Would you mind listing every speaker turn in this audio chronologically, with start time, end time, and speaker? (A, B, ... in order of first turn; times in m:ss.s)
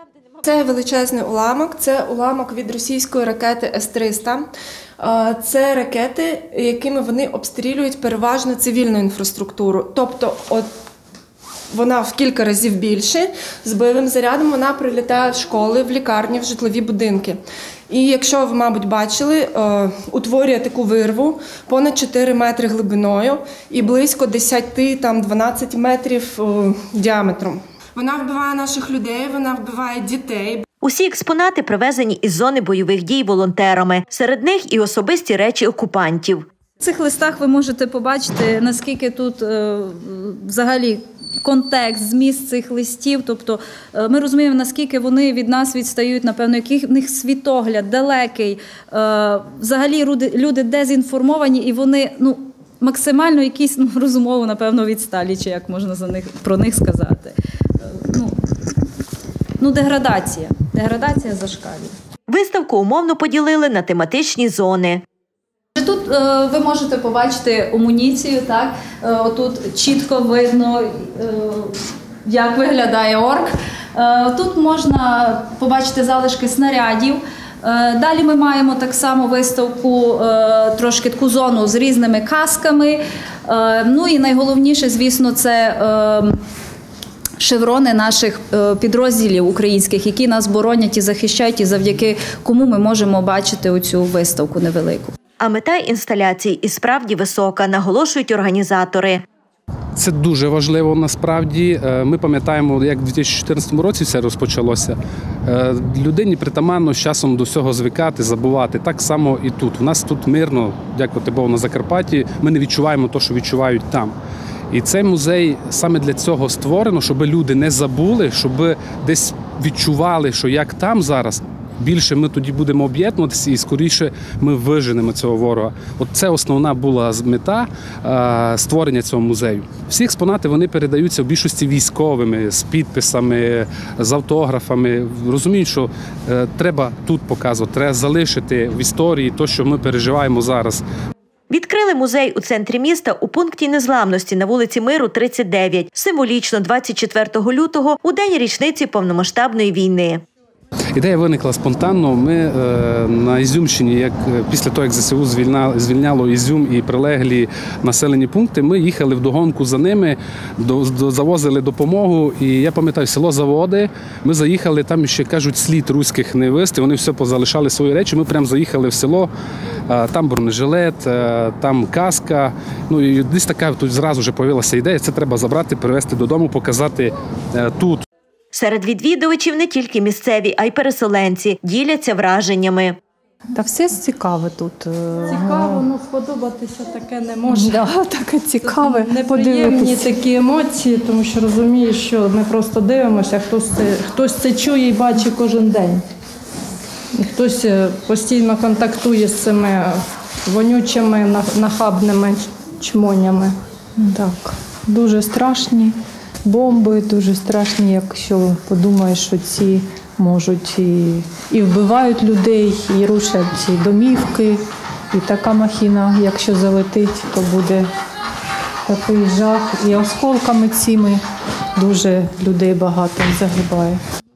0:00.4-0:04.4 A
0:05.0-0:10.6 A
0:11.7-0:30.6 A
0:30.8-0:36.5 B
0:36.8-0:58.4 C
0:59.6-1:01.9 C
1:02.3-1:05.0 B
1:05.8-1:26.4 C
1:27.4-1:35.1 C
1:35.4-1:39.2 B
1:40.0-1:54.1 D
1:54.7-2:20.8 D
2:21.5-2:30.2 B
2:30.9-2:49.3 D
2:49.9-2:58.0 D
2:58.5-3:03.0 B
3:03.5-3:05.8 E
3:05.3-3:07.7 F
3:07.5-3:10.1 E
3:08.8-3:16.0 F
3:17.2-3:19.9 F
3:20.5-3:23.5 F
3:24.0-3:34.6 E
3:35.1-3:37.9 E
3:38.9-3:41.2 E
3:41.8-3:44.0 E